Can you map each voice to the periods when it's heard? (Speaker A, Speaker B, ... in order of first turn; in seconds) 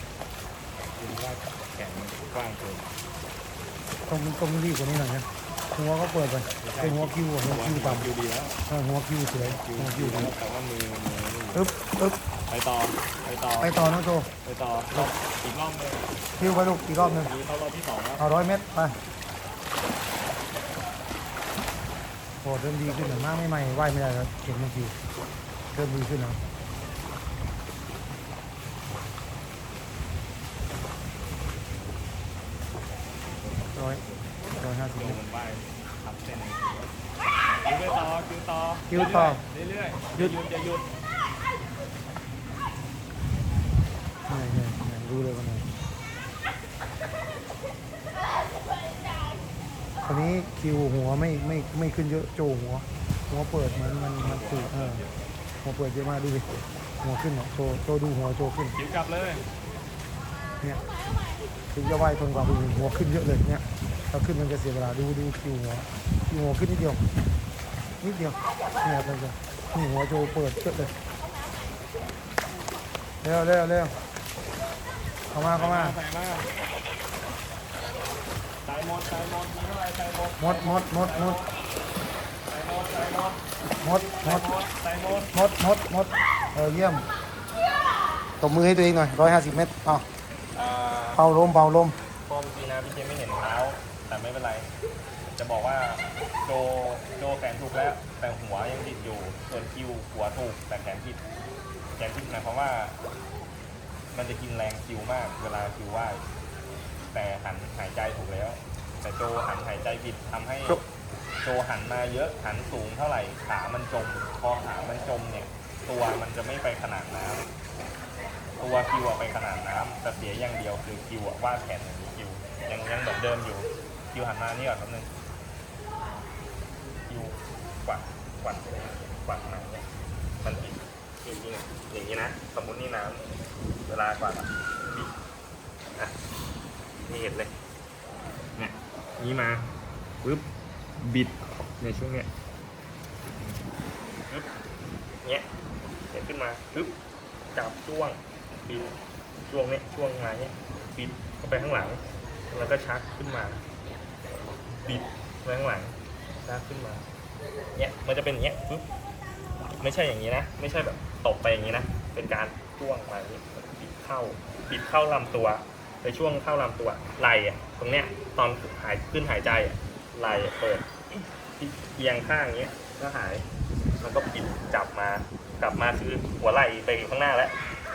Speaker A: 1.0-2.9, 6.6-8.6, 9.4-11.7, 12.5-13.7, 14.4-16.1, 16.9-18.2, 34.0-36.9, 37.6-40.9, 54.2-55.2, 58.8-59.5, 75.5-76.5, 78.6-81.5, 82.5-83.4, 84.2-85.3, 90.5-91.3, 92.3-94.7, 95.3-101.2, 102.0-103.0, 104.1-106.2, 107.1-110.8, 111.4-117.5, 118.6-125.1, 127.1-129.8, 130.4-133.3, 133.9-135.1, 137.0-137.5, 138.6-139.7, 141.0-142.3, 143.4-143.7, 146.1-146.9, 147.6-148.9, 149.5-153.6, 154.8-157.1, 157.8-158.9, 159.8-173.4, 174.0-177.6
Speaker B: 4.1-8.1, 8.7-10.3, 11.5-12.2, 13.6-14.3, 16.4-17.3, 18.2-19.0, 22.4-25.0, 25.7-26.4, 33.7-34.0, 34.6-35.2, 38.9-39.4, 44.3-45.7, 50.0-55.0, 55.6-58.8, 61.7-67.0, 68.0-70.9, 73.2-74.0, 75.3-76.0, 80.4-81.4, 83.7-84.5, 85.3-87.1, 88.4-90.0, 91.1-92.0